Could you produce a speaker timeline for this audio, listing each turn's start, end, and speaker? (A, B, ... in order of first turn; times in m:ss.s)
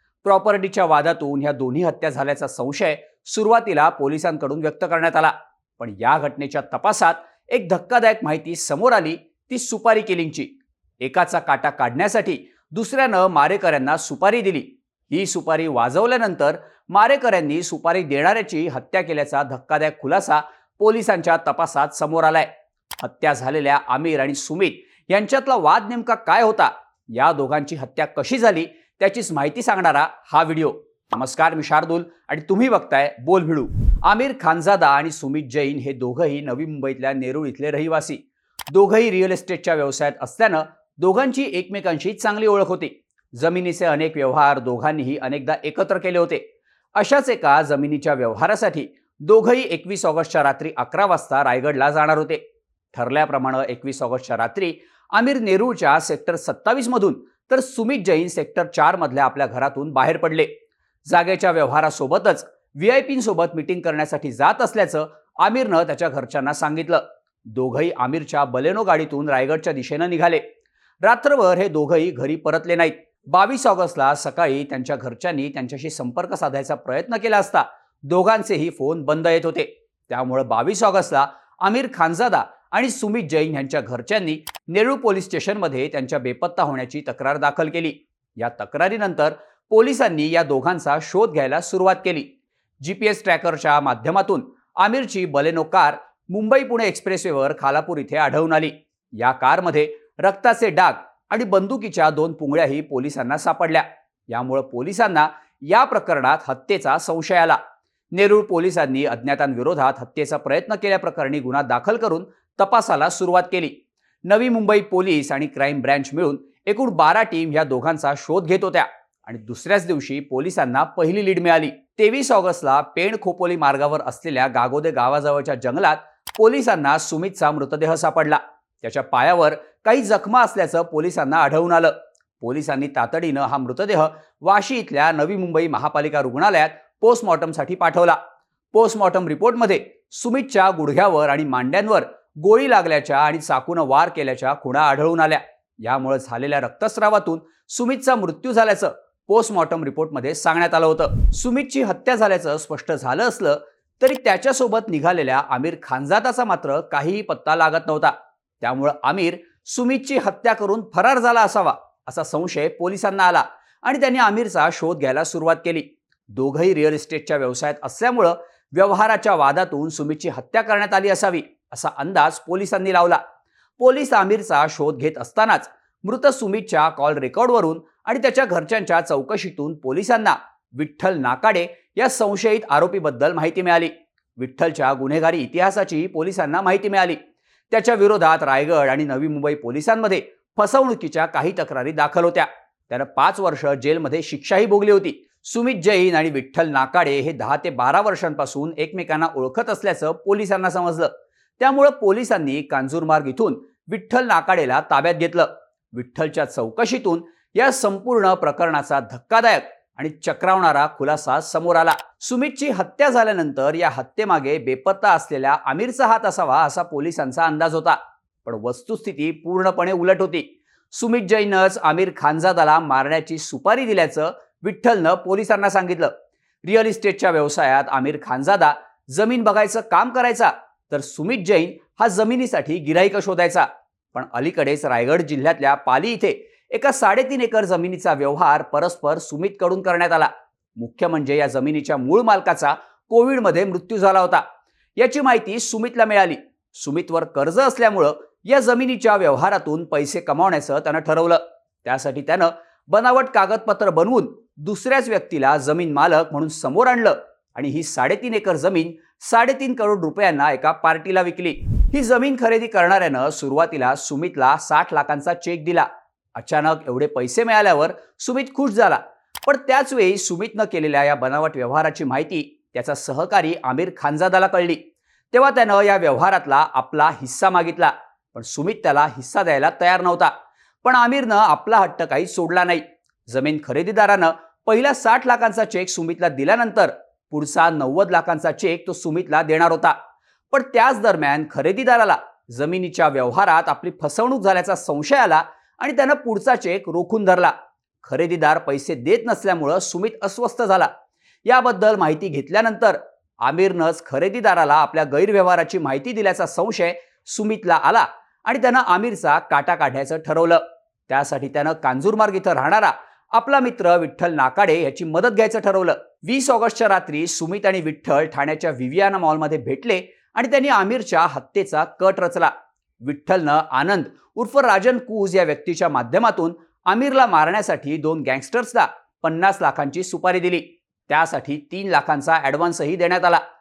0:00.2-0:10.5 A
0:11.0-0:46.4 A
0:47.0-0:52.4 A
0:52.9-1:00.5 A
1:01.1-1:10.4 A
1:11.0-1:32.3 A
1:32.8-1:47.6 A
1:48.1-1:53.8 A
1:54.3-2:18.2 A
2:18.7-2:53.2 A
2:53.8-3:07.2 A
3:07.7-3:46.1 A
3:46.6-4:04.4 A
4:05.0-4:34.8 A
4:35.3-4:40.3 A
4:40.8-4:50.0 A
4:50.5-5:00.9 A
5:01.4-5:33.4 A